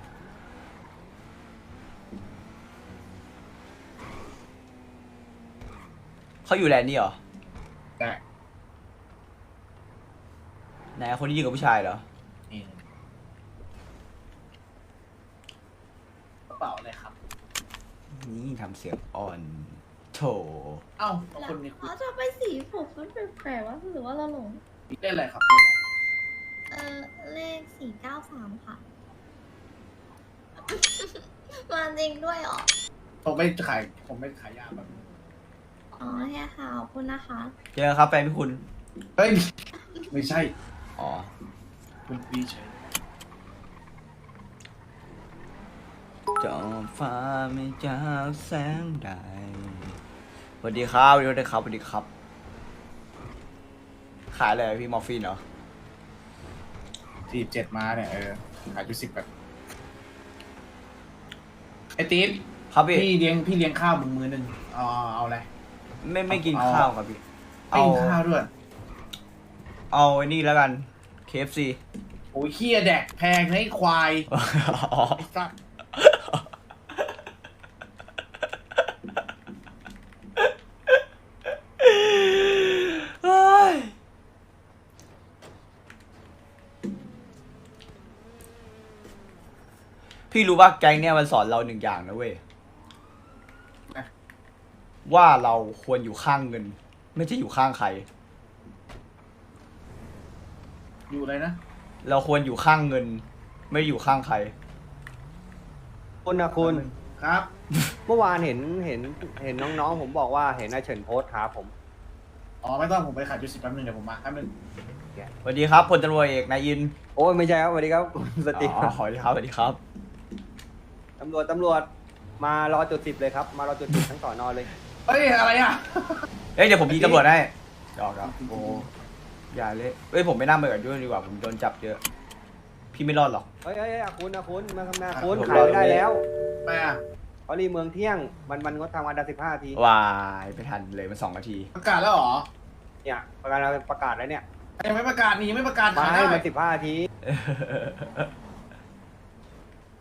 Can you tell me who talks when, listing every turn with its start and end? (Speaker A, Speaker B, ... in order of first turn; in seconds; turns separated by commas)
Speaker A: 6.4-7.2, Speaker A: 10.9-12.0, Speaker B: 12.5-12.8, Speaker B: 16.5-17.1, Speaker A: 18.1-20.8, Speaker B: 21.0-21.9, Speaker C: 21.3-24.6, Speaker B: 24.9-25.8, Speaker C: 26.7-28.8, Speaker C: 30.6-32.7, Speaker B: 33.2-35.1, Speaker C: 36.0-37.5, Speaker A: 37.7-38.6, Speaker B: 39.2-39.5, Speaker B: 40.1-40.5, Speaker A: 41.0-41.3, Speaker B: 42.1-42.9, Speaker A: 46.4-50.0, Speaker A: 50.6-52.1, Speaker A: 54.3-55.4, Speaker B: 57.3-59.3, Speaker B: 62.0-65.5, Speaker A: 62.7-63.1, Speaker A: 66.0-67.2, Speaker B: 66.3-66.9, Speaker A: 67.7-68.2, Speaker B: 67.7-68.5, Speaker A: 69.9-71.8, Speaker B: 72.3-74.3, Speaker A: 74.3-75.2, Speaker B: 75.2-75.5, Speaker A: 75.9-76.5, Speaker A: 80.4-81.0, Speaker A: 81.8-83.9, Speaker A: 90.3-92.4, Speaker A: 95.0-98.0, Speaker B: 101.1-101.6, Speaker A: 102.0-104.5, Speaker D: 106.2-106.8, Speaker B: 106.6-107.5, Speaker D: 108.1-111.7, Speaker B: 112.6-114.5, Speaker A: 115.4-116.9, Speaker D: 117.2-118.9, Speaker A: 118.5-119.8, Speaker D: 121.2-121.9, Speaker D: 122.4-124.7, Speaker B: 125.0-126.2, Speaker A: 126.5-128.9, Speaker B: 126.9-127.2, Speaker B: 128.2-128.9, Speaker A: 129.5-132.0, Speaker A: 132.9-133.5, Speaker D: 133.6-136.2, Speaker B: 135.1-135.8, Speaker A: 135.3-136.0, Speaker B: 136.6-137.0, Speaker D: 137.5-139.8, Speaker A: 139.7-141.7, Speaker B: 141.7-142.5, Speaker D: 143.0-144.4, Speaker B: 144.8-146.4, Speaker D: 145.9-147.1, Speaker A: 147.2-148.3